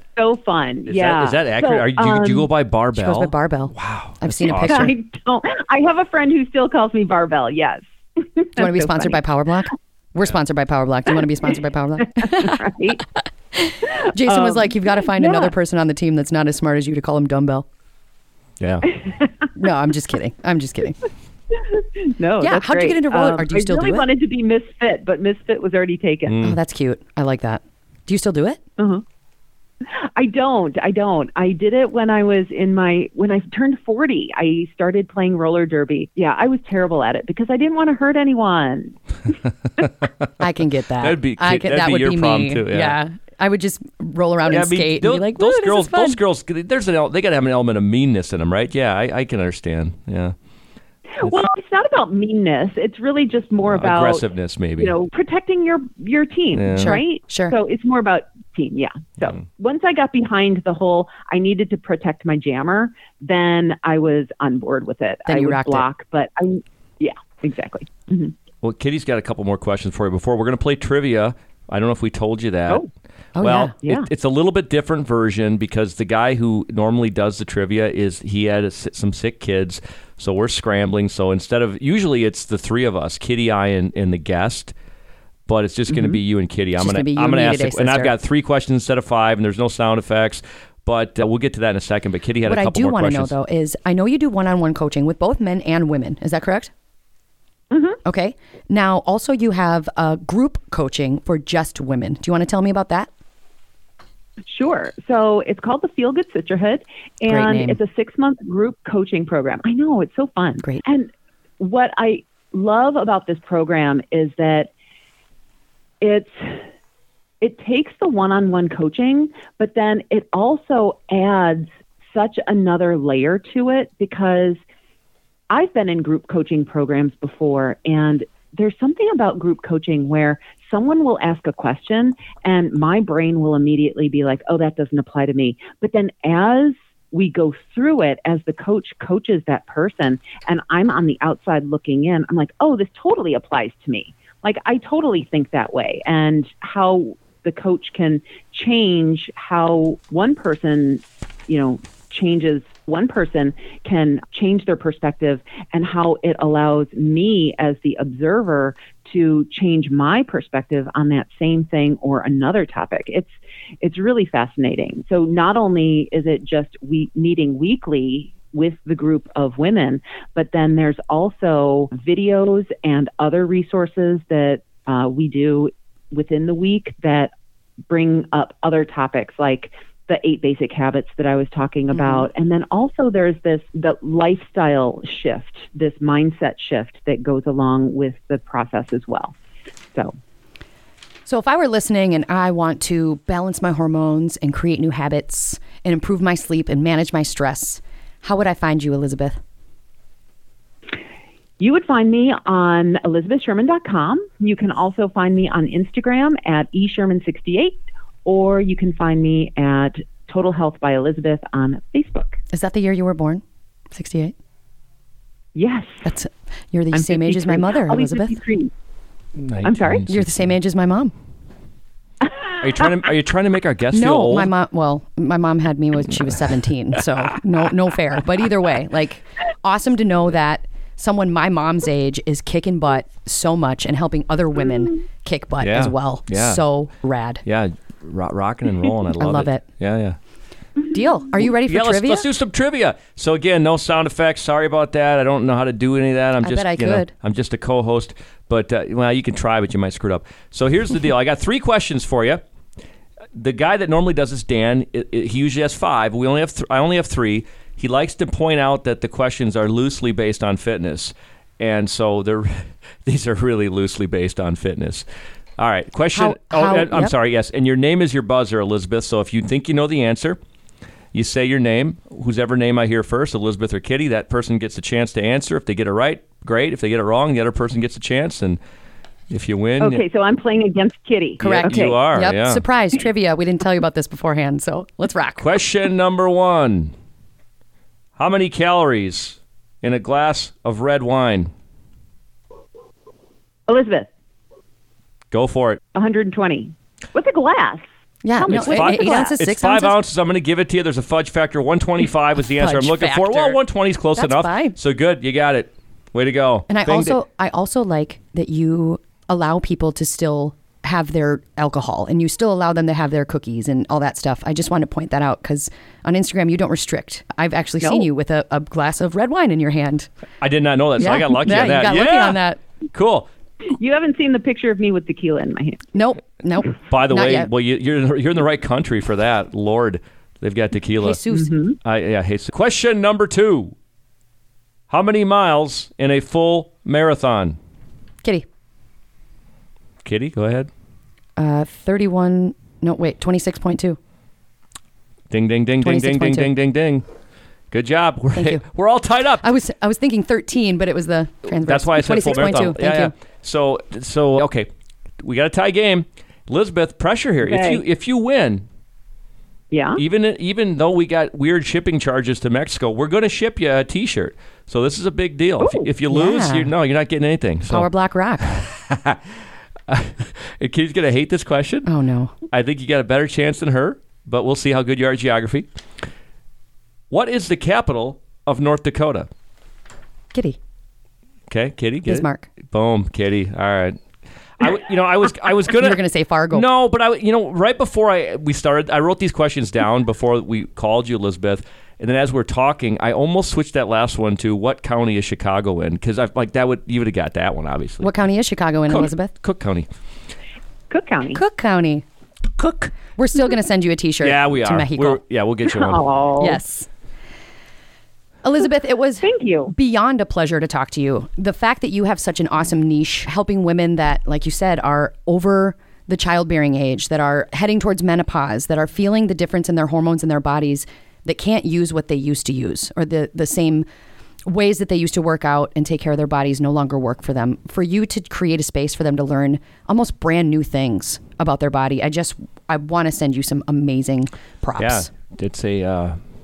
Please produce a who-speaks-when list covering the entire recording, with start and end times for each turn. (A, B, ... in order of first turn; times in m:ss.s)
0:00.2-0:02.5 A
0:00.9-0:04.8 B
0:03.0-0:04.9 C
0:04.5-0:09.2 A
0:08.6-0:12.6 C
0:12.2-0:13.0 A
0:13.5-0:17.7 C
0:14.2-0:15.5 A
0:18.6-0:18.9 B
0:19.6-0:21.0 C
0:21.6-0:26.4 A
0:22.4-0:24.1 C
0:26.3-0:26.6 B
0:26.4-0:28.6 C
0:28.8-0:29.0 A
0:30.0-0:39.0 A
0:39.8-0:40.2 B
0:40.4-0:46.2 C
0:41.0-0:43.0 B
0:44.5-0:50.4 B
0:51.2-0:54.2 A
0:53.7-0:54.9 B
0:54.8-1:08.4 A
0:56.6-0:57.0 B
0:56.8-0:57.6 C
1:05.3-1:05.8 C
1:08.6-1:12.8 B
1:13.4-1:13.7 C
1:13.4-1:24.8 B
1:25.5-1:33.3 B
1:25.9-1:26.2 A
1:26.8-1:28.1 C
1:32.5-1:36.7 C
1:37.7-1:38.0 A
1:38.0-1:43.1 C
1:44.5-1:54.7 A
1:47.3-1:47.8 C
1:56.0-1:56.6 A
1:57.4-2:04.6 A
2:05.5-2:43.3 A
2:43.8-2:57.3 A
2:57.9-3:09.3 A
3:01.9-3:02.2 C
3:11.3-3:19.4 C
3:21.6-3:32.4 A
3:32.5-3:34.3 C
3:35.6-3:36.0 A
3:36.0-3:38.4 C
3:36.9-3:38.7 A
3:39.4-3:40.5 B
3:39.6-3:40.1 A
3:40.1-3:41.1 C
3:42.2-3:42.9 A
3:42.6-3:44.5 B
3:43.9-3:57.4 C
3:55.6-3:56.6 B
3:57.5-4:00.2 B
3:59.2-3:59.6 C
4:00.9-4:02.3 C
4:01.4-4:12.4 B
4:06.4-4:07.1 C
4:13.4-4:25.1 B
4:25.6-4:30.4 B
4:26.1-4:27.1 C
4:31.1-4:38.6 B
4:39.3-4:40.0 B
4:39.8-4:42.0 A
4:41.4-4:42.6 B
4:41.6-4:45.6 C
4:45.4-4:46.9 B
4:48.2-4:51.5 B
4:53.7-4:54.1 A
4:55.3-4:55.8 B
4:56.0-4:57.8 A
4:58.2-5:00.0 C
4:58.4-4:59.3 A
4:58.5-5:07.2 B
5:02.5-5:03.6 C
5:04.2-5:04.8 C
5:06.7-5:20.1 C
5:20.4-5:22.4 B
5:21.0-5:22.6 C
5:22.9-5:23.3 B
5:23.7-5:25.8 A
5:25.9-5:27.5 C
5:26.9-5:31.2 B
5:31.0-5:31.5 C
5:31.3-5:31.8 A
5:31.8-5:33.8 B
5:34.9-5:37.6 B
5:40.0-5:40.7 B
5:41.4-5:44.0 C
5:45.3-5:47.0 B
5:45.8-5:46.5 C
5:47.7-5:49.4 B
5:48.4-5:48.6 C
5:49.4-5:53.1 C
5:51.6-5:54.7 B
5:55.2-5:58.6 B
5:57.4-5:57.8 A
5:59.7-6:00.0 A
6:00.0-6:07.9 B
6:05.6-6:05.9 A
6:06.1-6:06.7 C
6:07.7-6:08.5 C
6:08.4-6:09.4 B
6:09.9-6:11.9 B
6:11.8-6:12.3 C
6:12.5-6:15.7 B
6:17.1-6:19.3 B
6:21.5-6:24.0 B
6:22.1-6:22.5 C
6:24.6-6:38.1 B
6:25.7-6:26.7 C
6:38.0-6:39.3 C
6:38.9-6:39.9 B
6:40.9-6:41.4 A
6:41.3-6:42.0 C
6:42.6-6:45.2 C
6:44.2-6:46.0 B
6:45.7-6:46.6 A
6:46.4-6:46.9 C
6:48.4-7:03.9 C
6:49.2-6:49.7 A
7:04.5-7:15.1 C
7:14.8-7:16.2 B